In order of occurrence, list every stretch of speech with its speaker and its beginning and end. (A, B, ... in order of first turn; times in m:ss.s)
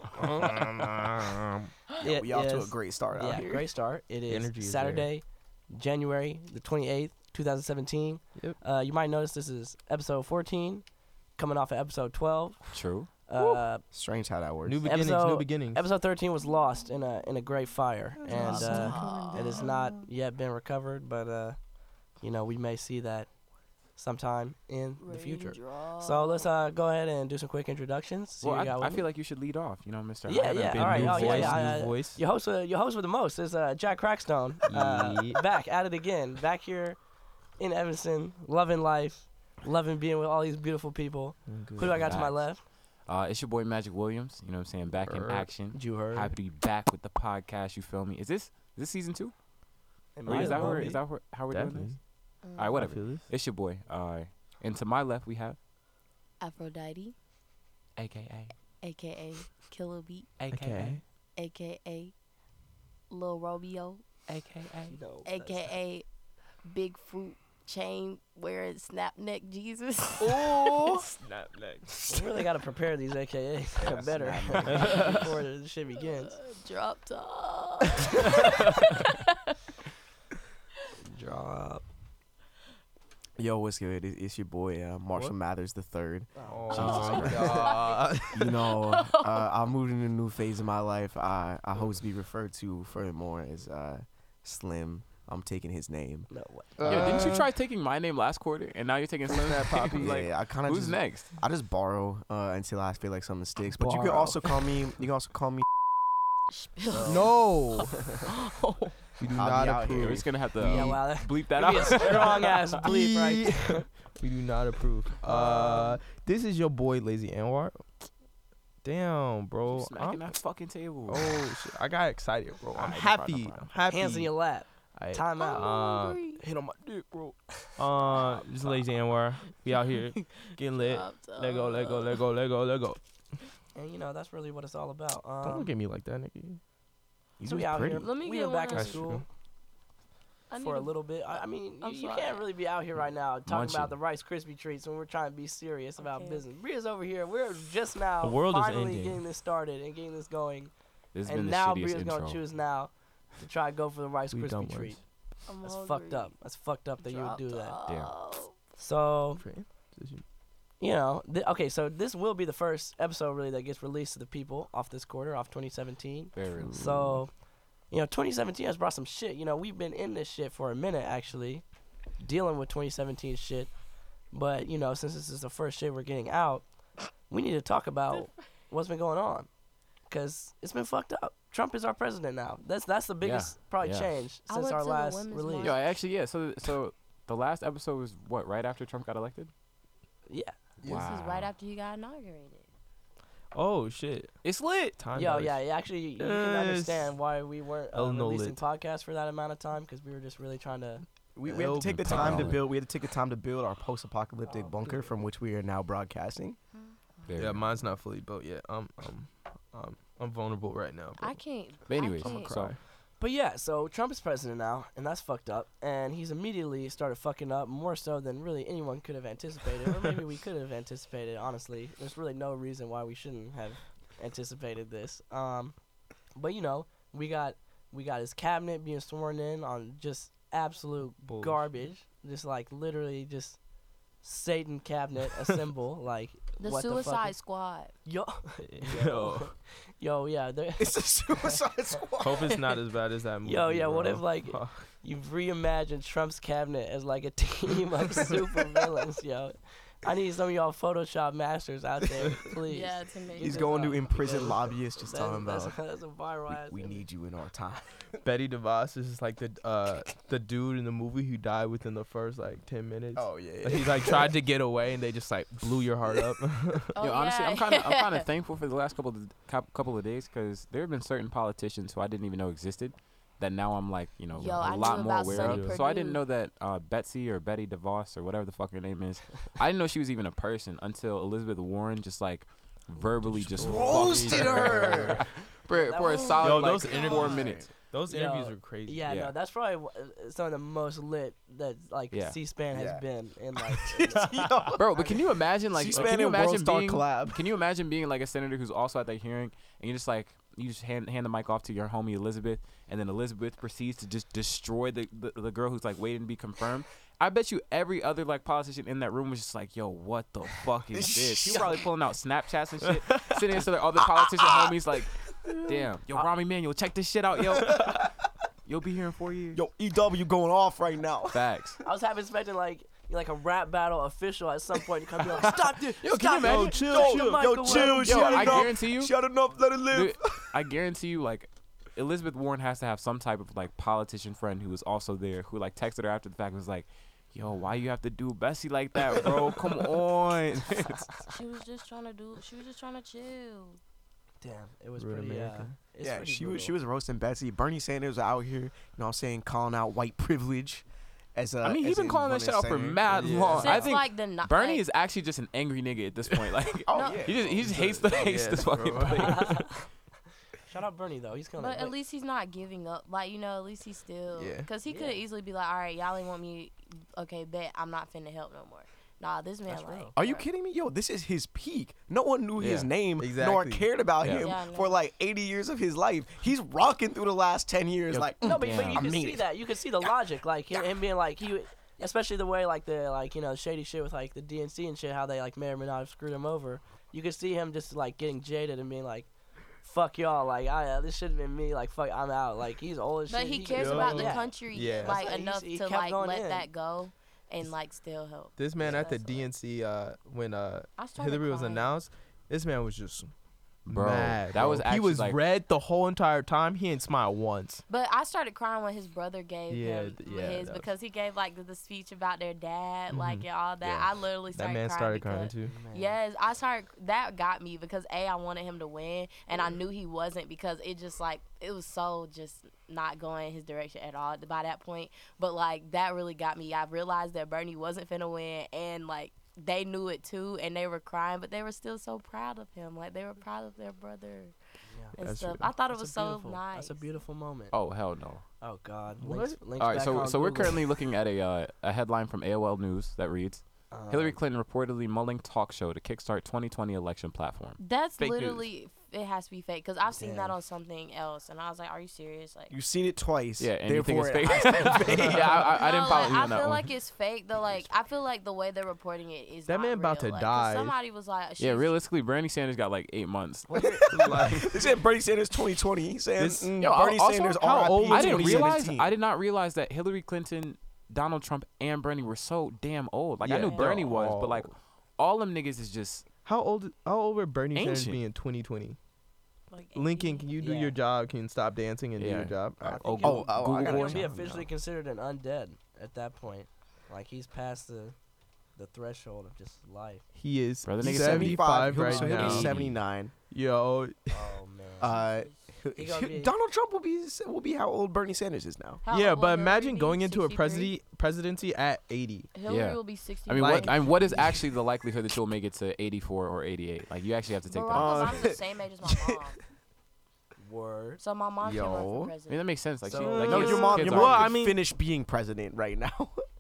0:00.2-0:01.0 A
0:00.5-0:01.3 B
0:02.0-0:03.7 B
0:02.0-0:13.9 C
0:04.2-0:05.1 A
0:12.7-0:13.1 D
0:13.9-0:14.8 B
0:14.6-0:15.8 A
0:14.8-0:29.1 C
0:18.2-0:19.9 A
0:18.3-0:19.8 E
0:25.0-0:26.5 E
0:28.4-0:31.8 D
0:30.3-0:42.6 C
0:30.6-0:32.2 A
0:34.7-0:35.4 A
0:41.5-0:42.2 A
0:41.9-0:49.5 D
0:45.0-0:45.5 A
0:45.7-0:46.3 C
0:50.0-0:55.6 D
0:50.1-0:51.0 C
0:50.2-0:52.2 A
0:52.4-0:52.8 E
0:52.7-0:53.3 A
0:56.4-0:57.2 E
0:58.0-0:58.5 D
0:58.8-1:00.4 E
1:00.4-1:01.0 D
1:00.5-1:01.0 A
1:01.4-1:02.2 E
1:03.1-1:04.2 E
1:04.3-1:05.0 D
1:04.9-1:05.7 C
1:05.2-1:11.2 E
1:10.3-1:12.2 A
1:12.0-1:16.4 C
1:14.1-1:14.6 B
1:14.7-1:15.3 A
1:16.3-1:19.2 E
1:21.0-1:21.9 C
1:23.4-1:27.8 B
1:26.4-1:27.0 C
1:26.5-1:28.6 A
1:26.7-1:29.4 E
1:26.7-1:27.4 D
1:28.3-1:37.4 B
1:36.3-1:37.2 C
1:36.8-1:37.5 A
1:36.9-1:41.4 D
1:39.4-1:40.1 A
1:39.9-1:45.7 B
1:43.8-1:44.5 C
1:46.8-1:47.3 E
1:46.9-1:47.4 C
1:47.0-1:48.2 A
1:48.5-1:49.0 E
1:49.2-1:51.0 A
1:49.3-1:50.3 B
1:50.0-1:52.6 D
1:50.6-1:54.1 C
1:52.8-1:58.2 A
1:58.8-2:13.4 A
1:59.7-2:01.3 D
2:02.7-2:03.8 D
2:03.9-2:05.7 C
2:05.4-2:06.4 E
2:07.9-2:08.7 C
2:10.3-2:12.2 E
2:13.7-2:15.7 C
2:15.4-2:16.6 A
2:17.4-2:18.1 B
2:17.4-2:19.2 C
2:18.0-2:19.0 E
2:18.7-2:19.3 A
2:20.5-2:22.5 E
2:20.6-2:37.8 C
2:23.4-2:24.0 D
2:26.0-2:26.4 E
2:28.2-2:29.2 A
2:31.1-2:32.4 D
2:34.3-2:35.2 A
2:35.5-2:36.4 E
2:37.0-2:38.6 E
2:37.9-2:38.1 D
2:38.8-2:39.5 C
2:39.4-2:40.2 A
2:40.8-3:05.9 C
2:46.3-2:47.0 D
2:46.6-2:47.2 A
3:03.2-3:04.1 D
3:04.5-3:05.8 E
3:05.6-3:09.5 D
3:10.3-3:10.6 C
3:10.8-3:11.5 D
3:10.8-3:12.6 E
3:13.5-3:17.2 A
3:14.4-3:15.0 D
3:15.2-3:21.1 C
3:17.9-3:18.6 A
3:21.4-3:26.6 B
3:21.4-3:22.6 A
3:21.8-3:22.6 D
3:24.4-3:25.1 C
3:26.9-3:27.3 E
3:27.3-3:27.8 D
3:27.4-3:32.8 A
3:31.2-3:32.7 E
3:31.9-3:32.8 D
3:33.2-3:57.4 C
3:51.2-3:51.6 A
3:56.6-3:58.0 E
3:58.0-4:01.6 C
3:58.8-3:59.5 A
4:00.8-4:02.6 B
4:02.2-4:04.9 A
4:03.4-4:17.0 C
4:12.7-4:13.9 E
4:13.4-4:15.9 B
4:16.5-4:18.2 B
4:18.2-4:27.0 A
4:23.2-4:24.3 B
4:27.0-4:28.2 E
4:27.0-4:47.7 D
4:34.3-4:36.2 E
4:35.2-4:35.8 A
4:43.1-4:45.3 A
4:43.6-4:45.3 B
4:45.6-4:55.2 C
4:46.0-4:47.3 E
4:46.4-4:49.1 A
4:47.2-4:47.7 B
4:49.1-4:49.3 D
4:52.1-4:52.4 D
4:52.7-4:53.0 B
4:54.1-4:55.2 B
4:54.8-5:19.6 D
4:55.7-4:57.4 B
4:55.9-4:56.2 A
5:10.9-5:11.8 B
5:14.0-5:14.8 B
5:19.5-5:21.4 B
5:21.3-5:21.8 D
5:21.8-5:28.6 C
5:26.0-5:27.2 D
5:26.4-5:28.2 A
5:26.8-5:30.5 B
5:28.0-5:29.2 D
5:29.9-5:41.1 D
5:41.3-5:43.8 E
5:44.4-5:46.8 C
5:45.0-5:45.8 A
5:46.0-5:53.9 B
5:51.6-5:59.7 D
5:53.1-5:53.9 A
5:53.6-5:54.8 E
5:56.9-5:57.8 B
5:56.9-5:57.4 E
5:57.5-5:59.6 A
5:59.2-5:59.9 C
6:00.6-6:02.0 C
6:01.6-6:10.5 E
6:04.3-6:04.7 A
6:04.9-6:05.2 C
6:09.7-6:10.1 C
6:10.2-6:20.1 B
6:12.6-6:12.9 D
6:13.2-6:13.9 A
6:14.2-6:14.5 D
6:14.2-6:15.0 E
6:18.1-6:19.1 D
6:18.4-6:36.7 C
6:33.3-6:39.5 E
6:33.8-6:35.2 A
6:38.6-6:47.8 A
6:41.0-6:42.0 E
6:43.8-6:45.4 D
6:47.9-7:14.6 E
6:49.7-6:50.9 A
6:53.1-6:55.8 A
6:55.6-6:56.2 C
7:14.9-7:15.2 C
7:15.2-7:17.1 E
7:15.2-7:15.8 A
7:15.7-7:18.0 C
7:17.7-7:18.4 D
7:18.6-7:20.8 C
7:19.2-7:19.6 A
7:19.8-7:27.8 D
7:23.9-7:24.4 C
7:27.8-7:32.7 E
7:28.2-7:28.7 A
7:30.1-7:30.6 C
7:32.7-7:35.7 B
7:33.6-7:36.8 D
7:35.7-7:42.0 E
7:39.7-7:41.0 A
7:41.6-7:44.7 D
7:43.7-7:44.1 C
7:44.1-7:44.7 A
7:44.2-7:49.1 B
7:46.4-7:46.9 A
7:46.8-7:56.3 D
7:47.6-7:48.9 A
7:53.4-7:54.7 A
7:53.6-7:54.0 E
7:56.4-7:59.0 A
7:57.7-7:58.2 D
7:59.7-8:00.8 E
7:59.9-8:03.6 A
8:00.6-8:01.0 C
8:02.2-8:02.7 D
8:02.8-8:10.3 C
8:03.0-8:04.2 B
8:03.4-8:04.7 D
8:10.3-8:14.6 A
8:10.8-8:13.0 D
8:11.0-8:13.3 B
8:14.3-8:15.3 C
8:15.0-8:19.0 B
8:15.1-8:15.5 E
8:16.0-8:16.5 C
8:19.0-8:21.0 E
8:19.1-8:22.5 A
8:22.5-8:24.6 E
8:22.7-8:28.6 D
8:23.6-8:24.3 A
8:27.7-8:29.6 E
8:27.9-8:29.5 B
8:30.6-8:31.2 C
8:31.2-8:32.7 E
8:31.6-8:32.4 B
8:32.5-8:34.8 D
8:33.0-8:34.2 C
8:33.2-8:34.8 A
8:33.5-8:36.4 B